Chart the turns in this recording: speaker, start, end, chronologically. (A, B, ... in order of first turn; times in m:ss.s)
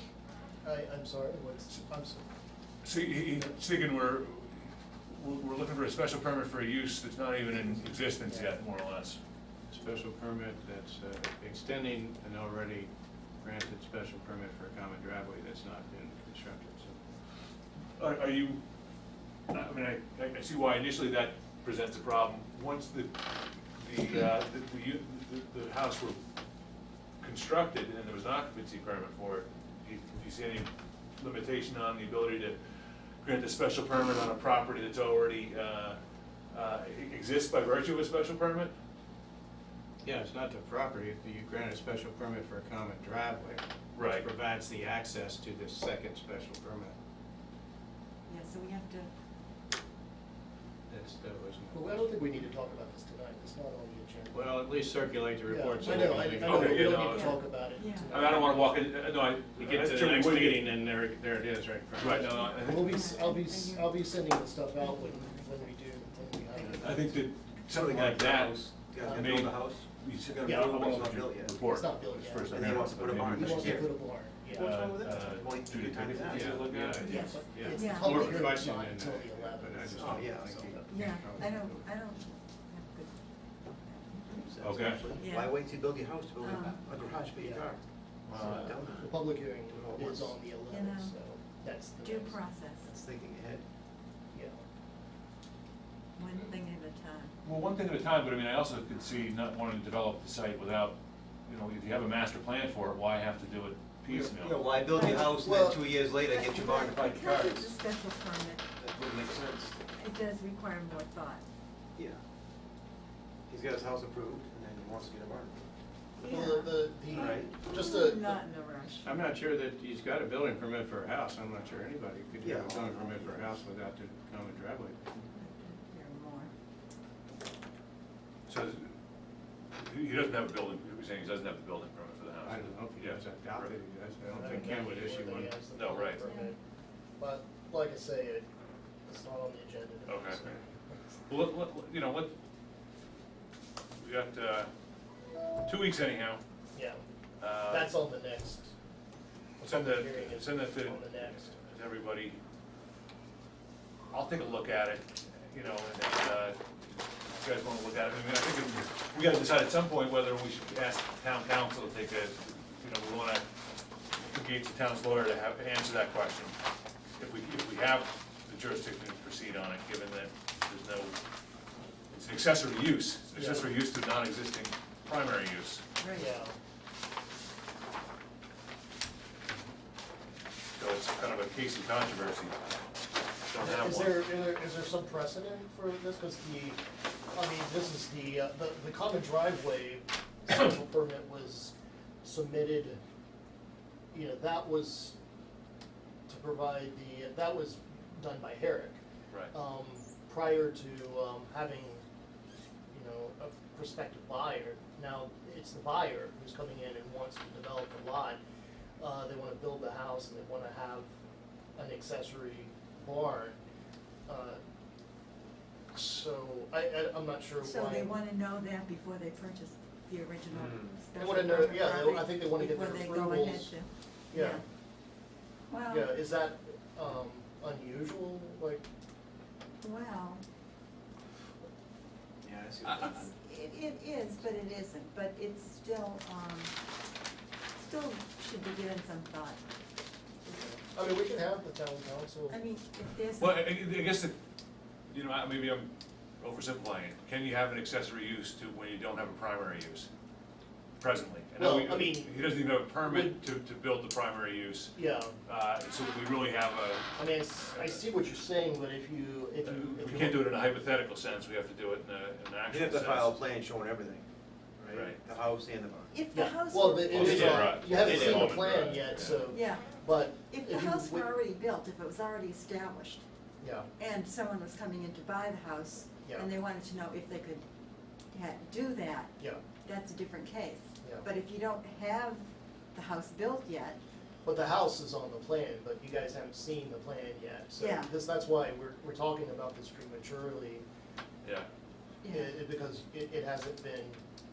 0:00.6-0:02.3 A
0:02.8-0:09.2 B
0:08.2-0:08.6 A
0:09.7-0:12.9 C
0:13.4-0:17.0 C
0:18.0-0:18.6 B
0:19.5-0:23.2 B
0:23.8-0:26.2 B
0:27.2-0:32.6 B
0:33.2-0:36.0 B
0:36.5-0:38.7 B
0:40.0-0:47.0 C
0:43.9-0:44.3 B
0:48.3-0:49.1 D
0:50.9-0:52.4 C
0:51.7-0:54.6 A
0:54.3-0:57.1 C
0:55.5-0:58.8 A
0:55.8-0:57.4 B
0:56.9-0:58.3 D
0:58.1-1:00.7 B
0:59.6-1:02.6 C
1:02.0-1:03.1 B
1:02.1-1:07.2 A
1:02.4-1:04.2 D
1:04.8-1:07.0 D
1:06.8-1:17.4 B
1:07.7-1:11.6 E
1:10.4-1:11.0 A
1:11.6-1:12.6 A
1:12.5-1:16.6 E
1:13.3-1:14.7 A
1:16.2-1:21.9 C
1:17.0-1:18.3 D
1:17.1-1:20.9 A
1:20.0-1:20.8 E
1:20.9-1:24.4 D
1:24.1-1:30.4 E
1:24.6-1:25.0 B
1:25.1-1:25.6 D
1:26.4-1:26.9 D
1:27.4-1:27.7 A
1:28.3-1:28.8 B
1:28.9-1:32.4 A
1:30.7-1:31.2 D
1:32.0-1:32.9 D
1:32.8-1:33.6 E
1:34.3-1:34.6 A
1:36.2-1:37.3 D
1:37.4-1:41.0 B
1:41.5-1:44.6 B
1:44.1-1:47.7 E
1:44.9-1:45.8 A
1:44.9-1:45.4 D
1:46.2-1:48.6 D
1:48.8-1:49.8 E
1:49.9-1:51.4 D
1:53.5-1:55.6 E
1:56.2-1:59.1 D
1:56.2-1:58.4 A
1:57.1-1:57.6 E
1:59.0-2:05.0 C
2:02.4-2:03.6 E
2:05.3-2:06.5 D
2:08.5-2:08.9 B
2:09.8-2:13.7 B
2:12.4-2:15.6 C
2:14.3-2:16.6 A
2:15.7-2:16.2 B
2:16.2-2:16.6 D
2:17.2-2:18.4 A
2:19.1-2:21.2 A
2:20.1-2:20.5 B
2:21.3-2:22.3 B
2:24.0-2:24.7 B
2:25.6-2:26.4 B
2:26.7-2:27.0 A
2:27.4-2:27.9 B
2:27.7-2:28.7 A
2:29.6-2:31.6 A
2:29.6-2:32.4 B
2:34.1-2:36.6 B
2:37.3-2:43.5 B
2:44.1-2:46.5 B
2:47.2-2:51.2 B
2:52.1-2:55.8 B
2:53.3-2:53.7 A
2:56.0-2:56.4 D
2:56.1-2:56.6 A
3:00.8-3:02.6 B
3:03.5-3:04.2 B
3:03.6-3:06.8 A
3:07.3-3:13.0 A
3:14.1-3:15.2 A
3:16.3-3:19.0 A
3:19.5-3:22.0 A
3:22.9-3:28.4 A
3:29.0-3:31.1 A
3:31.8-3:33.6 A
3:34.3-3:34.6 A
3:35.9-3:38.1 A
3:37.6-3:44.6 D
3:40.5-3:41.0 E
3:41.2-3:43.8 A
3:44.3-3:44.6 A
3:45.7-3:46.2 D
3:45.9-3:48.8 A
3:49.8-3:50.4 D
3:52.4-3:53.3 E
3:53.0-3:56.7 D
3:57.8-3:59.6 D
4:00.4-4:02.6 A
4:02.5-4:03.8 D
4:03.4-4:04.4 B
4:05.1-4:10.1 B
4:11.0-4:17.1 B
4:11.6-4:13.4 A
4:15.0-4:15.4 A
4:17.2-4:20.5 A
4:19.6-4:23.4 B
4:22.7-4:24.3 E
4:24.8-4:26.1 E
4:24.8-4:25.2 B
4:26.1-4:28.5 D
4:26.3-4:31.3 A
4:27.1-4:29.4 B
4:27.6-4:28.6 E
4:29.5-4:33.2 D
4:33.6-4:33.9 A
4:34.0-4:37.6 D
4:38.3-4:44.0 D
4:41.0-4:41.3 A
4:44.4-4:50.9 A
4:47.8-4:48.1 D
4:52.2-4:52.6 D
4:52.3-4:54.2 A